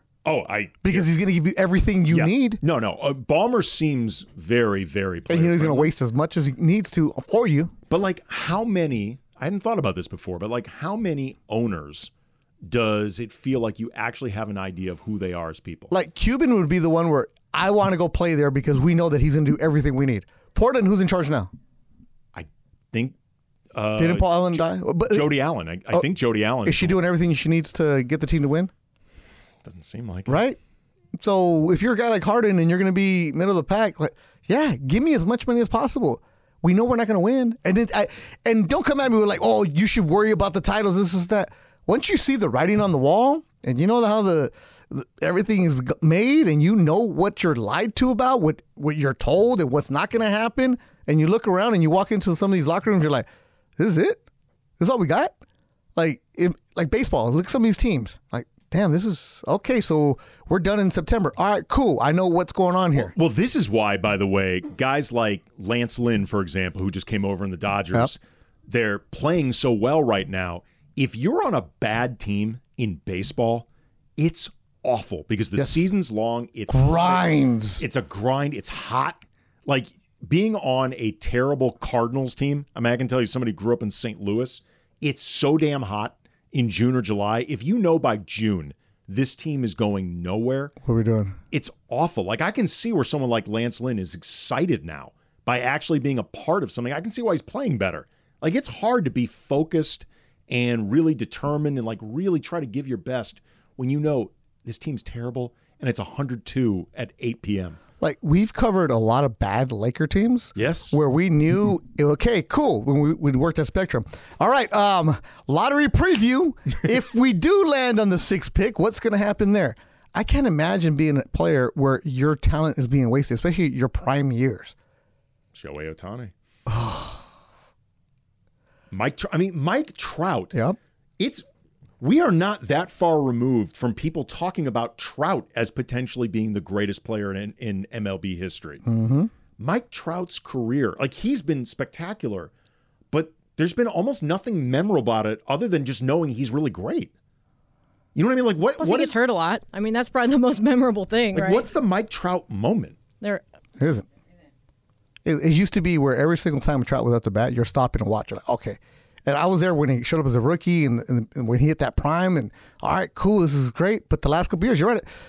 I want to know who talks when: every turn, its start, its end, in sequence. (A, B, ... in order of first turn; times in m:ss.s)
0:00.2-0:01.1 A
0:00.8-0:02.6 B
0:02.1-0:05.9 A
0:05.3-0:07.7 B
0:07.9-0:12.1 A
0:12.6-0:15.9 A
0:15.9-0:21.5 B
0:22.3-0:23.1 A
0:23.7-0:27.0 A
0:24.0-0:25.3 B
0:26.6-0:28.7 B
0:29.6-0:30.4 A
0:30.3-0:30.6 B
0:31.2-0:53.2 B
0:53.8-0:54.2 B
0:54.8-0:55.3 B
0:56.0-1:03.1 B
1:03.0-1:13.6 A
1:14.2-1:30.7 A
1:15.6-1:15.8 B
1:16.7-1:17.8 B
1:30.8-1:31.4 B
1:31.5-1:47.8 A
1:48.0-2:04.7 B
1:50.6-1:51.0 A
2:05.5-2:06.3 A
2:06.7-2:07.2 B
2:08.9-2:10.5 A
2:11.2-2:11.4 A
2:12.0-2:18.8 A
2:18.8-2:19.3 B
2:19.6-2:22.5 A
2:23.1-2:27.1 A
2:28.1-2:29.1 A
2:28.8-2:31.6 C
2:31.3-2:33.0 A
2:33.8-2:34.0 B
2:35.2-2:45.0 B